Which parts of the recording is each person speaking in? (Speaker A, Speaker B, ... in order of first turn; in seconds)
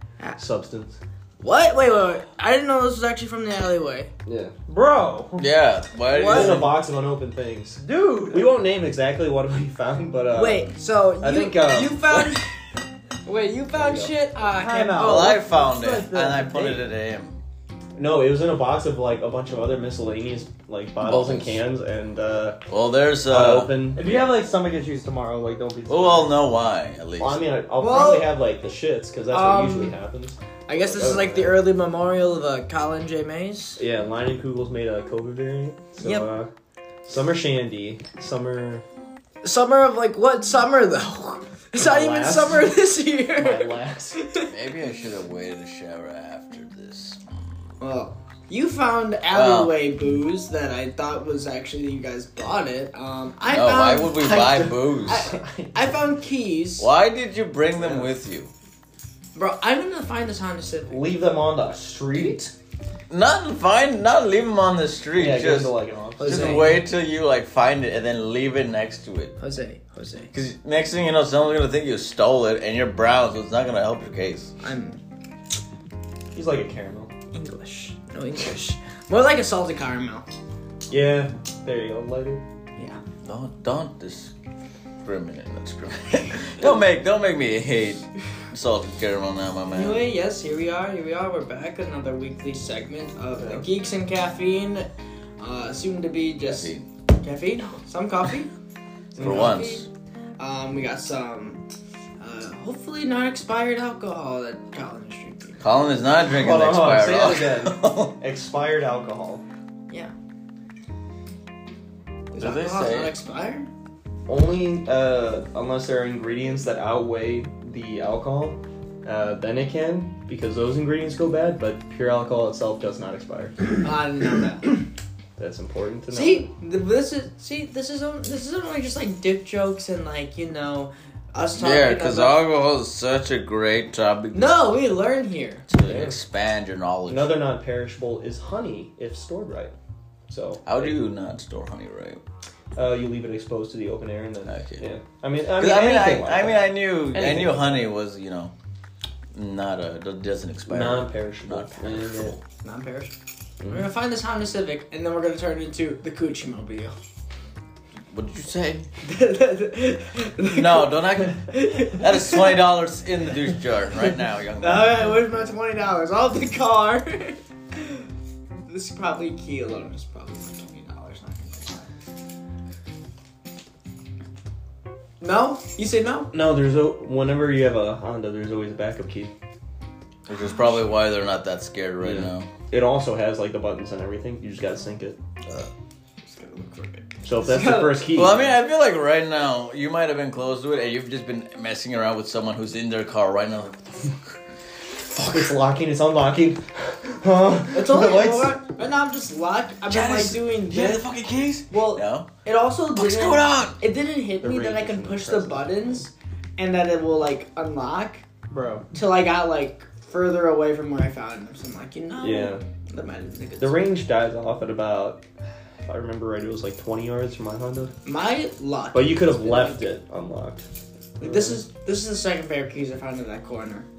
Speaker A: 0.4-1.0, 4.2-4.5, 6.2-12.0, 13.7-14.1, 18.0-22.6, 23.3-24.0, 27.2-31.6, 33.8-36.5, 37.0-38.8, 41.8-42.7, 43.4-44.2, 55.2-56.0, 57.8-58.1, 60.9-62.5, 65.1-66.8, 76.3-77.1, 80.9-82.4, 93.3-93.7, 99.1-99.6, 106.2-109.4, 114.3-123.8, 125.4-126.5, 135.8-136.2, 137.1-139.7, 140.3-140.7, 142.8-147.8, 150.7-152.3, 153.6-153.9, 176.3-179.3, 182.0-185.2, 187.2-188.6, 195.3-198.6, 204.4-205.9, 212.2-212.6, 213.6-215.2, 215.8-217.9, 218.9-220.7, 221.2-221.6
Speaker B: 1.4-4.1, 6.1-6.6, 10.3-12.5, 13.2-15.4, 27.8-28.4, 29.3-30.0, 30.7-33.8, 36.0-36.3, 39.4-44.5, 47.8-56.9, 59.3-61.1, 66.2-66.8, 69.4-70.3, 74.6-75.0, 77.3-80.2, 82.8-83.0, 89.7-98.5, 99.2-99.8, 100.4-101.6, 102.2-105.6, 109.9-110.1, 112.3-113.7, 123.8-124.7, 126.1-132.4, 134.3-135.7, 152.6-153.2, 153.7-156.9, 159.0-162.6, 164.6-168.1, 168.7-171.9, 175.2-176.3, 186.2-188.1, 197.7-201.1, 201.7-208.2, 208.9-213.9, 218.1-219.9, 221.2-223.9
Speaker C: 4.7-5.5, 7.8-8.6, 14.5-16.8, 23.9-26.3, 208.5-208.8
Speaker D: 5.4-6.8, 14.9-17.4, 21.0-21.6, 22.7-24.4, 25.9-27.4, 44.5-47.2, 49.3-49.8, 53.5-55.3, 56.8-58.5, 63.1-69.4, 70.3-74.5, 83.2-84.3, 85.0-90.0, 96.5-96.8, 99.2-99.9, 105.6-108.1, 112.4-113.1, 131.6-134.5, 135.7-137.4, 140.7-142.2, 144.5-144.8, 145.5-148.5, 149.3-152.4, 158.1-158.9, 160.6-165.1, 180.3-182.5, 188.1-194.4, 194.9-195.6, 199.9-202.3, 202.9-203.8